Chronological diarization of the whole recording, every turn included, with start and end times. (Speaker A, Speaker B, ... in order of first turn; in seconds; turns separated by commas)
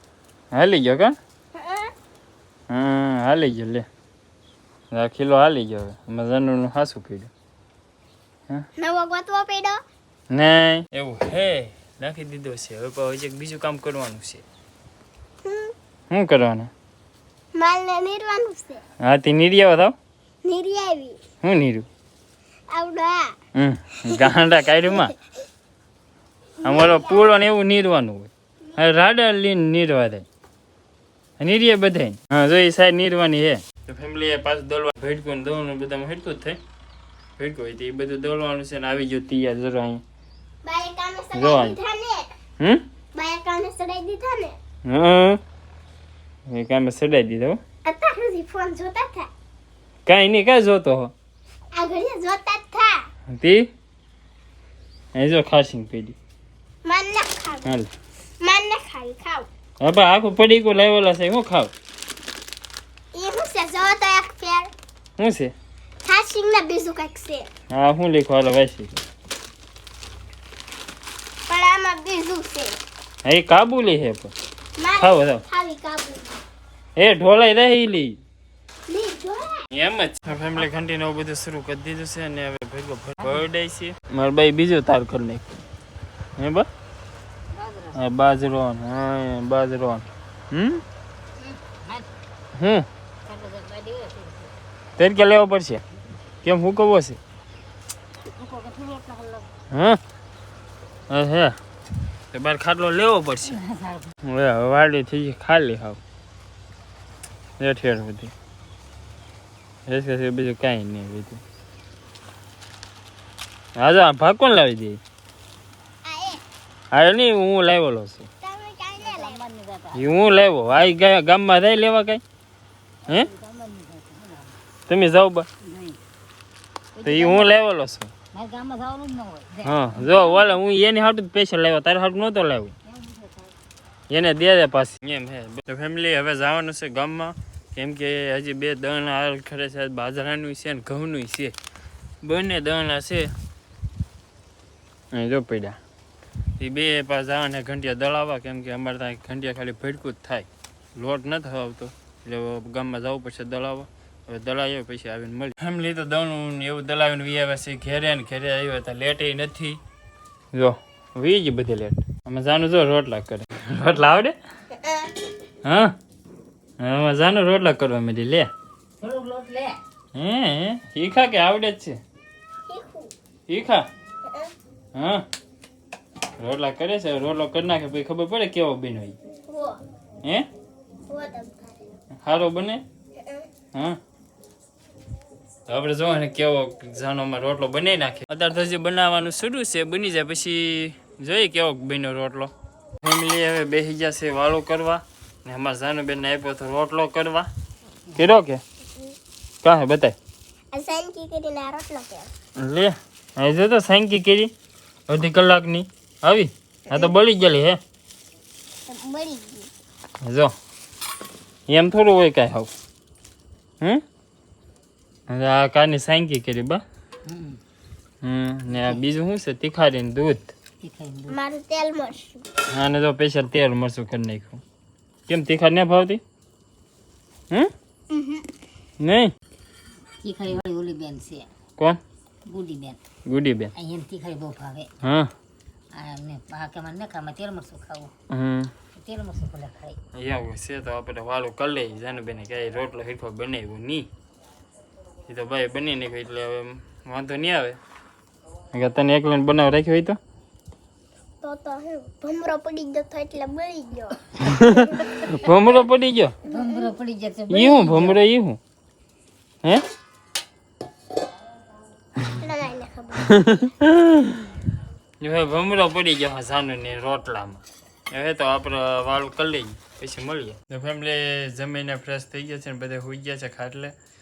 Speaker A: 0.5-1.1, Speaker B: 1.6-1.9, Speaker A: 2.7-3.9, Speaker A: 4.9-7.3, Speaker B: 8.8-9.8, Speaker A: 10.3-14.4, Speaker B: 15.4-15.7, Speaker A: 16.1-16.7, Speaker B: 17.5-18.8, Speaker A: 19.0-19.9, Speaker B: 20.4-21.2, Speaker A: 21.4-21.9, Speaker B: 22.7-23.4, Speaker A: 23.6-25.1, Speaker B: 24.1-25.1, Speaker B: 26.6-27.4, Speaker A: 26.6-30.3, Speaker A: 31.4-36.6, Speaker A: 37.4-40.0, Speaker B: 40.6-42.3, Speaker A: 41.3-41.8, Speaker A: 42.6-42.9, Speaker B: 43.1-44.6, Speaker A: 44.9-45.4, Speaker A: 46.5-47.6, Speaker B: 47.9-49.3, Speaker A: 50.1-51.1, Speaker B: 51.7-53.0, Speaker A: 53.3-53.7, Speaker A: 55.1-56.2, Speaker B: 56.9-57.8, Speaker A: 57.6-57.9, Speaker B: 58.4-59.5, Speaker A: 59.8-61.7, Speaker B: 63.1-64.7, Speaker A: 65.2-65.5, Speaker B: 66.0-67.5, Speaker A: 67.7-69.0, Speaker B: 71.5-72.8, Speaker A: 73.2-74.3, Speaker B: 74.8-76.4, Speaker A: 75.0-75.4, Speaker A: 77.0-78.2, Speaker B: 78.9-79.6, Speaker A: 79.7-85.5, Speaker A: 86.4-86.7, Speaker C: 87.5-88.0, Speaker A: 88.0-90.8, Speaker C: 91.4-92.1, Speaker A: 92.5-92.9, Speaker C: 93.2-94.5, Speaker A: 95.0-95.8, Speaker A: 96.4-97.2, Speaker C: 98.2-99.5, Speaker A: 99.7-100.0, Speaker A: 101.1-101.6, Speaker A: 102.3-103.6, Speaker C: 103.5-104.1, Speaker A: 104.2-106.0, Speaker A: 107.6-108.3, Speaker A: 109.9-111.4, Speaker A: 113.8-115.0, Speaker B: 116.0-116.4, Speaker A: 116.9-118.3, Speaker B: 118.4-119.4, Speaker C: 119.0-120.1, Speaker A: 119.9-122.2, Speaker C: 123.1-124.6, Speaker A: 124.9-125.5, Speaker C: 125.6-126.0, Speaker C: 127.0-127.5, Speaker A: 127.0-128.1, Speaker C: 128.3-130.5, Speaker A: 129.6-132.7, Speaker C: 132.8-133.6, Speaker A: 134.1-141.6, Speaker A: 142.2-143.3, Speaker A: 145.1-145.8, Speaker A: 146.6-159.8, Speaker A: 160.5-164.4, Speaker B: 164.7-165.2, Speaker A: 165.6-166.0, Speaker A: 166.8-168.5, Speaker C: 169.0-169.8, Speaker A: 170.1-172.0, Speaker B: 172.7-173.1, Speaker A: 173.5-173.9, Speaker B: 174.2-174.5, Speaker A: 174.9-175.3, Speaker A: 176.4-179.2, Speaker B: 179.5-179.8, Speaker A: 180.2-180.5, Speaker B: 181.1-181.9, Speaker A: 182.2-182.8, Speaker B: 183.2-183.5, Speaker A: 183.7-184.0, Speaker A: 185.7-197.5, Speaker A: 198.2-198.6, Speaker A: 199.6-200.2, Speaker B: 200.7-202.3, Speaker A: 202.6-204.5, Speaker A: 205.1-207.8, Speaker B: 206.9-207.1, Speaker B: 208.9-209.7, Speaker A: 210.2-210.5, Speaker A: 211.7-212.7, Speaker A: 215.3-216.8, Speaker C: 217.2-217.6, Speaker A: 218.2-220.5, Speaker C: 218.7-219.0, Speaker C: 220.8-221.4, Speaker B: 221.3-222.4, Speaker A: 222.7-224.6, Speaker A: 225.3-226.2, Speaker B: 228.1-228.5, Speaker A: 229.0-229.3, Speaker C: 230.2-231.5, Speaker C: 232.5-233.0, Speaker A: 233.3-233.7, Speaker C: 233.8-234.9, Speaker A: 235.0-235.3, Speaker C: 235.9-238.1, Speaker A: 238.3-238.7, Speaker C: 238.9-240.0, Speaker A: 240.2-244.1, Speaker A: 245.3-247.8, Speaker A: 248.7-250.2, Speaker B: 251.4-254.4, Speaker A: 254.4-256.4, Speaker B: 255.0-255.3, Speaker B: 256.4-256.9, Speaker C: 256.4-258.2, Speaker A: 257.5-258.6, Speaker B: 262.4-263.3, Speaker A: 263.2-264.6, Speaker A: 265.2-273.9